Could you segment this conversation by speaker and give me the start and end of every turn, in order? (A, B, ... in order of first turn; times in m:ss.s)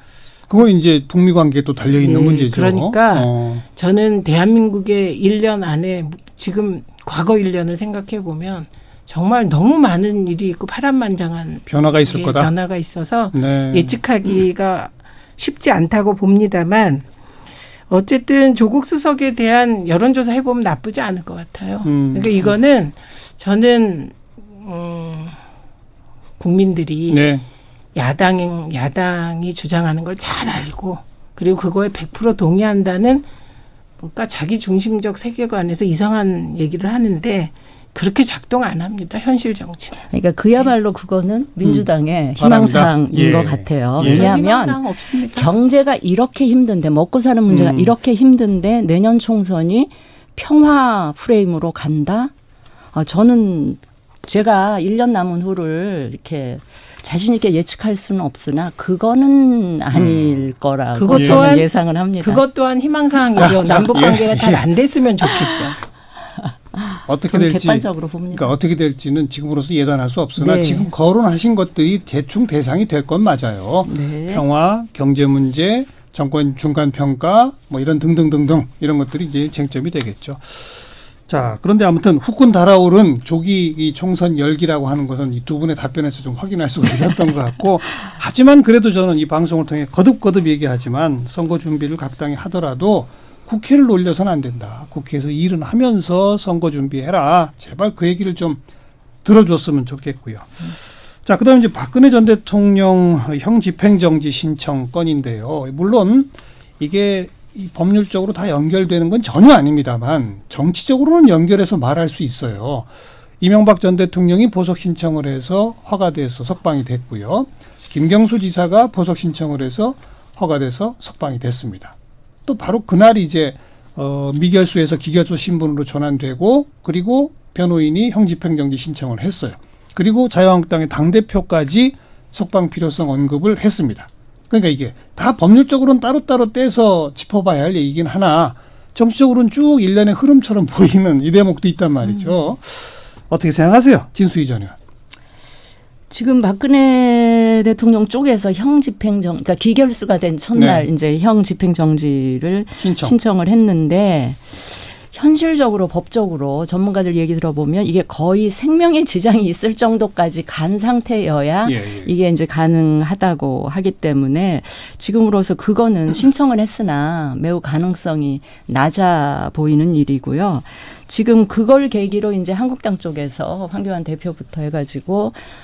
0:00.5-0:03.6 A
0:02.0-0:17.0 B
0:11.6-0:12.5 A
0:13.3-0:14.0 A
0:17.9-0:25.4 B
0:21.8-0:22.4 A
0:26.4-0:27.3 B
0:27.1-0:27.4 A
0:27.9-0:33.2 B
0:34.0-0:40.0 B
0:40.0-0:52.3 C
0:41.6-0:44.3 A
0:44.0-0:45.6 B
0:47.5-0:47.9 A
0:52.9-1:02.4 C
0:59.9-1:00.4 A
1:00.9-1:05.8 B
1:01.1-1:01.5 A
1:03.3-1:04.6 A
1:06.8-1:08.5 C
1:07.0-1:38.6 A
1:10.4-1:10.9 B
1:13.8-1:14.4 C
1:39.2-1:52.9 A
1:53.4-2:01.9 A
2:02.4-2:24.7 A
2:26.1-2:55.4 C
2:30.5-2:30.9 A
2:32.8-2:33.2 A
2:41.6-2:42.1 A